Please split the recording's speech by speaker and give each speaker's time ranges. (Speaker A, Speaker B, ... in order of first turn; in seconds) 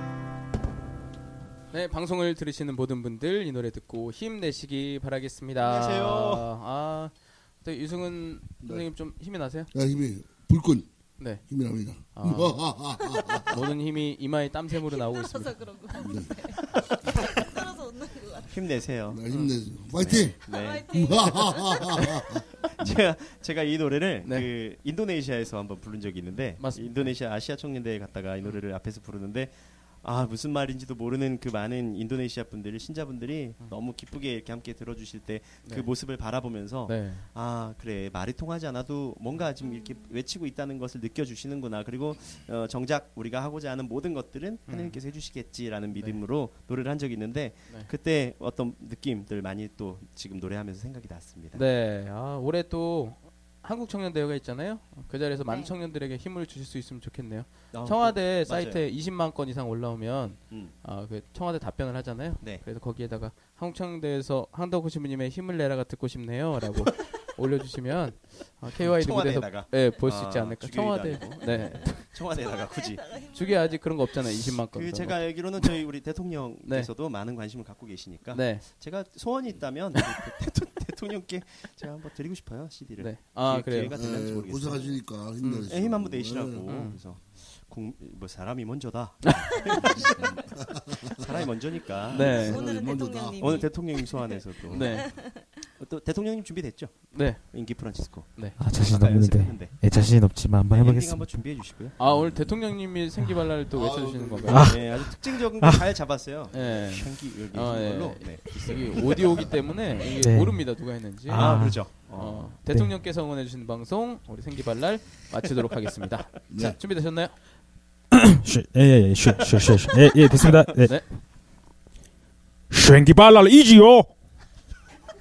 Speaker A: 1.7-9.7, 12.2-12.8, 13.5-15.6, 24.2-24.5, 26.6-27.1, 35.6-35.9, 36.9-37.3, 44.7-45.0, 45.9-46.2, 51.5-72.0, 73.3-75.4, 76.6-76.9, 78.3-78.7, 83.0-83.9, 85.4-85.7, 86.7-87.0, 89.2-89.6, 92.1-92.6, 94.7-95.1, 97.1-98.6, 102.0-104.8, 106.5-117.4, 120.8-121.1
Speaker B: 5.6-6.4, 18.5-19.2, 19.9-21.0, 22.7-51.6, 57.7-58.9, 68.8-73.2, 74.7-85.0, 85.7-92.5, 93.4-102.0, 104.6-109.6, 111.3-112.6
Speaker C: 8.6-8.9, 9.7-13.6, 16.0-17.3, 19.1-22.4, 83.9-86.6, 90.2-90.8, 92.1-93.7, 102.0-102.8, 103.7-104.8, 116.5-116.8
Speaker D: 14.9-18.5, 20.5-22.4, 72.7-73.8, 92.2-95.6
Speaker E: 98.6-101.3, 104.5-105.8, 110.2-112.0, 112.6-113.0, 118.1-121.2, 122.7-124.2